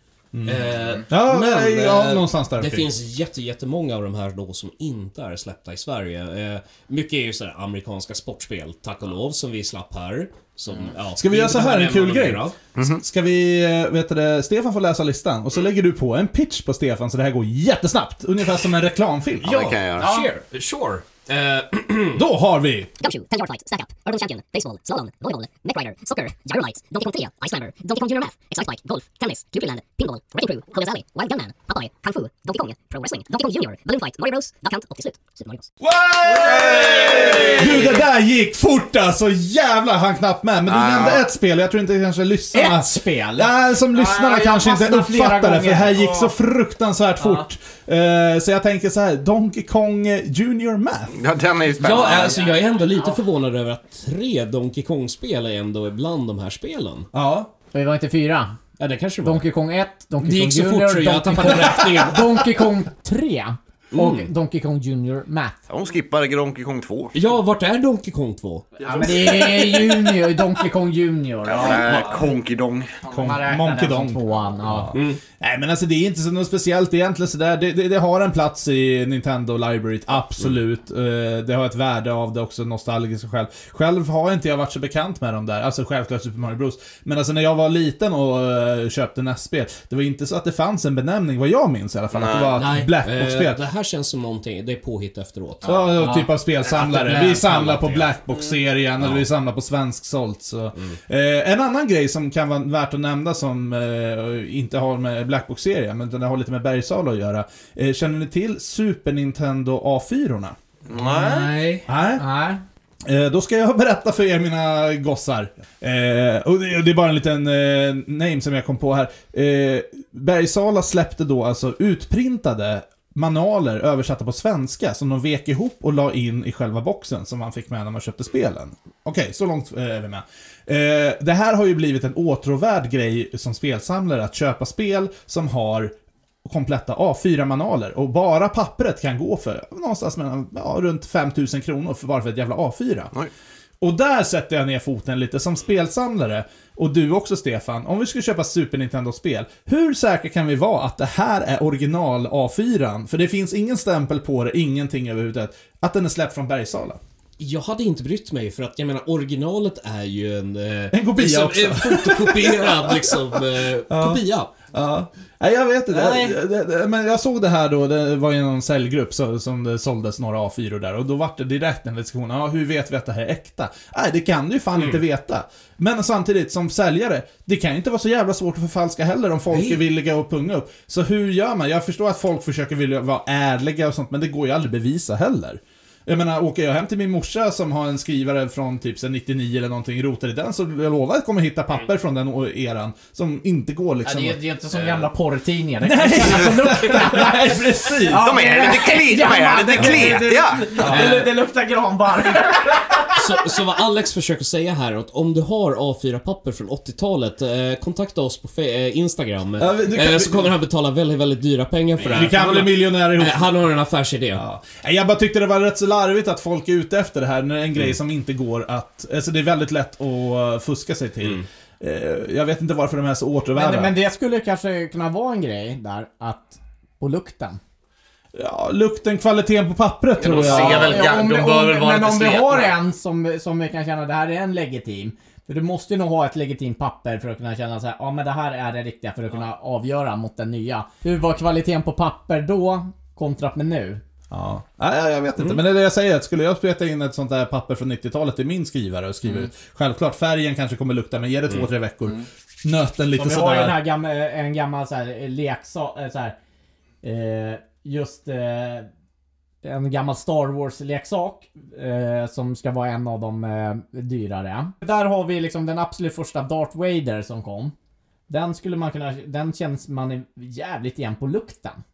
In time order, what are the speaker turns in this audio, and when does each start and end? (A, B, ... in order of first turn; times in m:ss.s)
0:00.3-0:02.9 A
0:00.4-0:12.6 B
0:11.2-0:19.8 A
0:12.8-0:13.0 C
0:19.4-0:20.2 C
0:19.4-0:22.2 B
0:22.1-0:22.9 A
0:23.0-0:35.7 D
0:35.8-0:51.2 A
0:36.4-0:37.6 C
0:36.4-0:38.0 E
0:36.6-0:37.6 B
0:40.7-0:41.3 C
0:42.5-0:46.3 E
0:47.2-0:47.5 E
0:51.1-0:52.4 C
0:51.8-0:57.1 B
0:52.2-0:53.2 E
0:57.1-0:57.5 A
0:57.7-0:58.6 E
0:58.8-0:59.5 B
0:59.2-1:05.6 E
1:00.2-1:02.6 B
1:03.9-1:04.3 B
1:05.7-1:07.2 C
1:07.1-1:09.4 B
1:08.9-1:12.2 E
1:11.5-1:13.1 C
1:13.1-1:33.6 A
1:13.2-1:15.0 E
1:14.9-1:15.2 B
1:32.1-1:32.6 C
1:32.6-1:38.1 B
1:35.6-1:50.6 A
1:36.0-1:36.3 E
1:39.0-1:39.3 B
1:50.9-1:51.5 C
1:50.9-1:51.9 B
1:51.9-1:52.2 A
1:52.2-1:52.6 E
1:53.0-2:15.9 A
2:16.4-2:23.1 A
2:23.8-2:37.0 A
2:37.4-2:44.5 B
2:40.9-2:43.2 A
2:43.9-3:14.4 A
2:45.9-2:46.4 B
2:59.5-2:59.8 B
3:14.0-3:23.1 E
3:15.8-3:18.3 A
3:18.1-3:21.2 C
3:19.8-3:20.2 A
3:20.8-3:21.3 A
3:20.9-3:21.2 B
3:23.2-3:34.4 B
3:29.6-3:30.5 A
3:32.1-3:33.6 A
3:34.4-3:44.0 A
3:43.5-3:47.6 E
3:48.3-3:51.0 A
3:50.2-3:52.8 C
3:50.4-4:04.0 E
4:04.3-4:13.8 A
4:05.4-4:05.6 B
4:13.2-4:16.4 E
4:17.0-4:18.9 E
4:19.6-4:27.7 E
4:28.3-4:31.8 E